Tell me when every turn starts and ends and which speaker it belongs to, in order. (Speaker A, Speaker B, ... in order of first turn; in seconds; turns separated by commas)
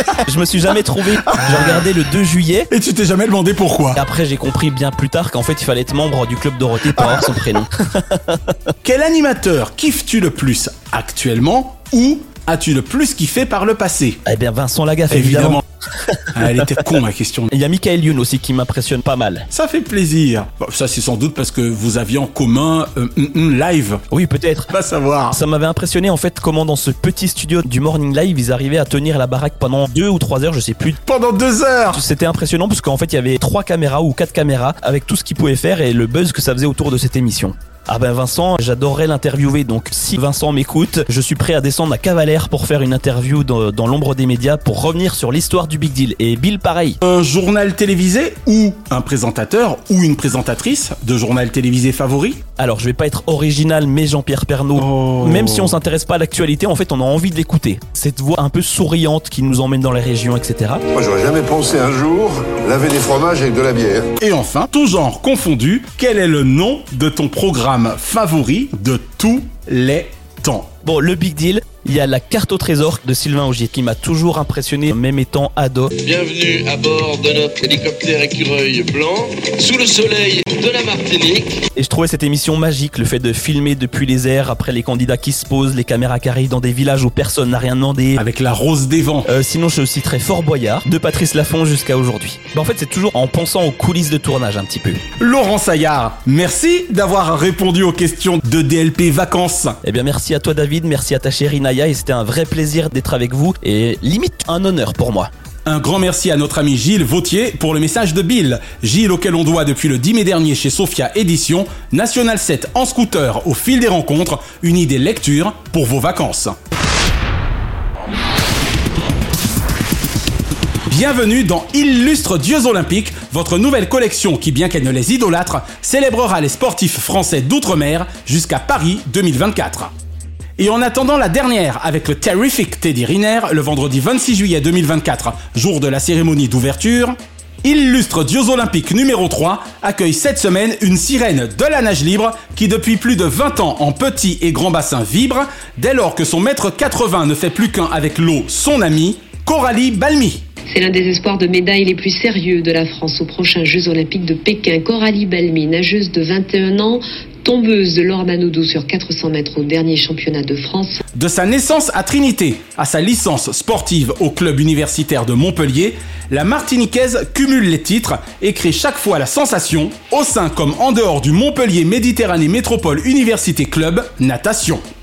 Speaker A: 0.2-2.7, Speaker B: 1.2-1.8, Speaker B: 2.7-4.0, Speaker A: 3.9-8.6, Speaker B: 6.9-7.3, Speaker B: 8.8-14.2, Speaker A: 14.2-16.6, Speaker B: 15.1-15.6, Speaker B: 16.3-17.5, Speaker A: 17.5-19.5, Speaker B: 19.5-24.0, Speaker A: 24.1-24.7, Speaker B: 24.7-25.4, Speaker A: 25.3-31.0, Speaker B: 31.1-32.0, Speaker A: 31.9-47.0, Speaker B: 47.0-52.4, Speaker A: 52.6-60.8, Speaker B: 54.8-55.8, Speaker C: 60.9-64.1, Speaker B: 64.2-70.7, Speaker A: 70.8-75.9, Speaker D: 76.0-81.6, Speaker A: 81.7-88.2, Speaker B: 88.2-89.3, Speaker A: 89.2-95.0, Speaker B: 95.2-99.8, Speaker A: 99.8-105.3, Speaker B: 105.7-116.5, Speaker B: 120.9-129.9, Speaker B: 130.6-150.4, Speaker E: 150.7-161.0, Speaker B: 161.1-174.8